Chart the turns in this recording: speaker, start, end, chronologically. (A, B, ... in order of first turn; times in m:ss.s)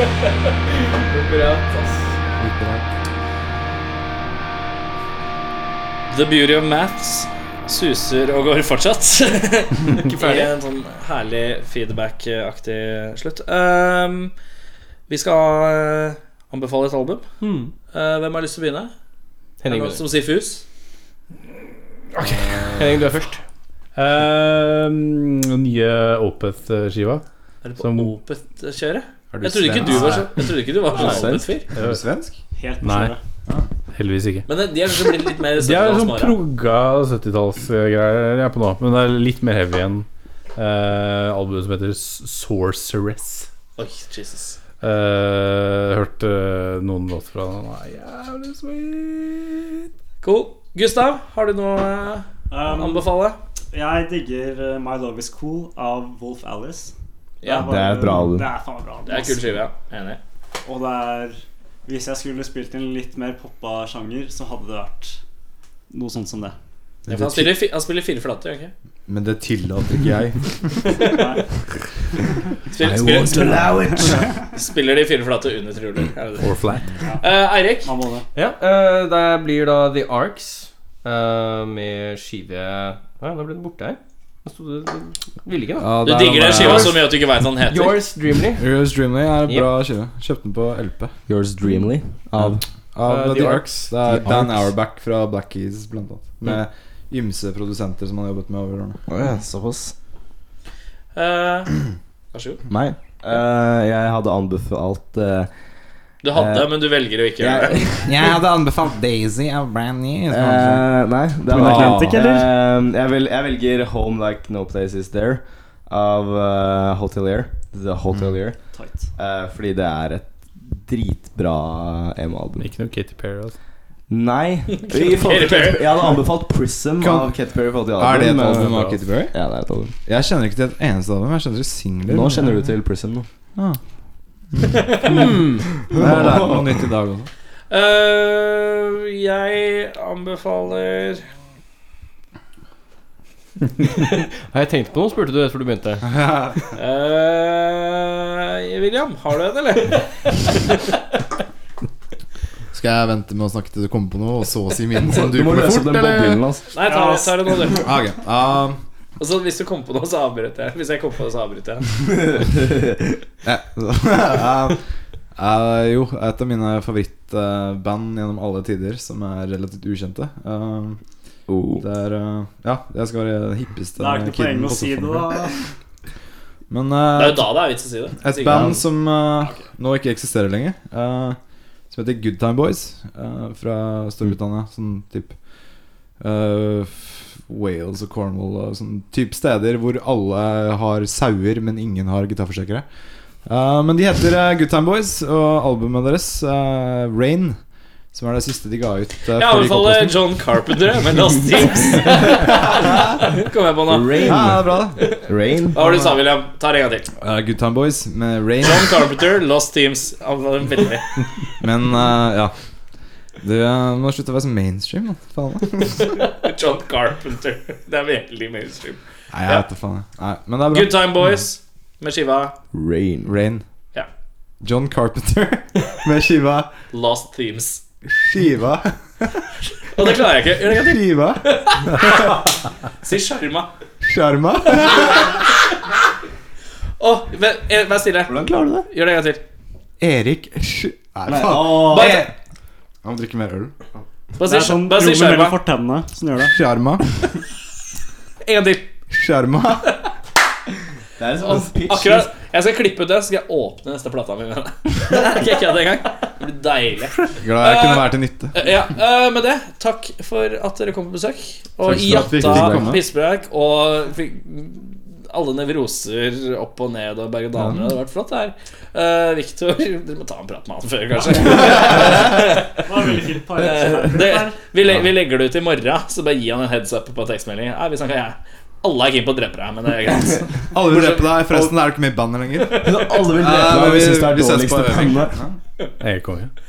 0:01.1-0:01.9 A
0:02.4-0:02.9 B
0:06.1-0:14.3 C
0:10.2-0:10.5 A
0:15.1-0:17.2 C
0:17.4-0:17.7 A
0:17.9-0:18.9 C
0:19.6-0:20.0 A
0:19.7-0:20.6 C
0:22.1-0:23.1 D
0:22.7-0:23.4 A
0:24.0-0:27.2 D
0:27.6-0:31.7 C
0:27.8-0:28.2 D
0:29.3-0:30.4 B
0:30.9-0:31.4 E
0:31.7-0:32.0 D
0:31.8-0:32.4 B
0:32.6-0:33.2 F
0:32.8-0:33.1 D
0:33.9-0:34.5 D
0:34.5-0:36.4 C
0:35.1-0:43.5 D
0:43.8-0:44.6 C
0:44.8-0:49.9 D
0:50.2-0:53.4 C
0:52.5-0:53.1 F
0:53.7-0:59.6 F
0:57.4-0:57.7 C
0:57.6-0:58.5 E
0:59.1-1:00.2 C
1:00.6-1:05.2 F
1:05.9-1:06.6 F
1:07.1-1:07.5 B
1:07.1-1:08.7 C
1:09.1-1:11.0 B
1:11.0-1:11.4 F
1:12.7-1:13.6 C
1:12.8-1:13.7 B
1:12.8-1:14.2 E
1:14.5-1:16.5 C
1:16.4-1:16.9 D
1:17.1-1:18.3 F
1:17.2-1:17.9 C
1:18.4-1:25.9 A
1:25.8-1:27.0 B
1:26.0-1:28.0 C
1:26.5-1:27.0 A
1:27.6-1:28.6 A
1:28.6-1:31.1 B
1:31.3-1:32.6 E
1:32.4-1:39.0 B
1:33.0-1:34.0 A
1:34.1-1:34.6 E
1:39.1-1:39.9 E
1:41.2-1:41.8 C
1:42.3-1:42.6 C
1:42.7-1:45.5 E
1:46.2-1:47.8 C
1:46.3-1:48.2 E
1:48.0-1:50.9 B
1:50.3-1:58.6 E
1:51.5-1:52.0 D
1:51.6-1:52.5 F
1:51.6-1:52.2 B
1:58.7-1:59.1 F
1:59.2-2:02.7 E
2:02.6-2:03.6 D
2:04.1-2:08.8 E
2:04.8-2:06.2 C
2:07.0-2:07.3 B
2:08.0-2:09.3 B
2:08.7-2:09.0 D
2:09.3-2:09.9 E
2:10.1-2:12.6 B
2:12.1-2:13.3 E
2:14.5-2:15.2 B
2:14.7-2:15.2 C
2:15.1-2:15.7 A
2:15.8-2:16.8 E
2:15.9-2:17.3 B
2:17.7-2:21.3 C
2:24.0-2:26.1 A
2:26.0-2:26.7 B
2:26.8-2:30.1 C
2:32.7-2:36.2 B
2:35.1-2:36.7 E
2:36.7-2:37.8 C
2:36.8-2:37.4 F
2:37.8-2:38.8 B
2:39.2-2:41.9 C
2:42.1-2:43.2 E
2:43.4-2:44.8 B
2:45.4-2:51.0 B
2:51.5-2:51.8 E
2:51.8-2:55.5 B
2:54.0-2:55.6 F
2:56.7-2:57.5 B
2:57.2-2:58.8 C
2:58.2-3:01.4 B
3:01.9-3:05.4 B
3:06.2-3:12.8 B
3:13.4-3:17.6 B
3:18.1-3:20.2 B
3:19.4-3:24.4 C
3:22.4-3:23.0 B
3:23.9-3:25.8 E
3:24.2-3:25.1 B
3:25.7-3:27.1 C
3:25.8-3:26.2 B
3:27.2-3:29.0 B
3:28.6-3:31.1 C
3:31.6-3:32.5 B
3:33.4-3:36.2 B
3:36.1-3:39.6 C
3:39.3-3:41.4 B
3:40.7-3:42.5 C
3:42.7-3:43.3 E
3:43.2-3:43.6 B
3:44.6-3:46.7 B
3:46.9-3:47.8 C
3:48.1-3:49.4 B
3:49.9-3:52.5 C
3:50.6-3:51.4 B
3:53.0-3:53.7 C
3:54.0-3:55.4 B
3:54.9-3:55.3 C
3:57.0-3:59.4 C
3:58.3-3:58.9 E
4:00.0-4:02.3 B
4:01.3-4:02.2 E
4:01.9-4:02.3 C
4:03.0-4:03.7 B
4:04.4-4:05.6 C
4:04.4-4:06.5 F
4:06.4-4:07.1 B
4:08.4-4:08.9 C
4:09.1-4:09.8 B
4:11.2-4:12.3 E
4:11.4-4:32.8 C
4:17.3-4:18.6 B
4:21.9-4:23.0 B
4:21.9-4:23.0 E
4:27.6-4:27.8 B
4:32.8-4:34.6 F
4:33.6-4:41.7 C
4:40.7-4:45.6 B
4:42.8-4:45.4 E
4:46.0-4:46.5 D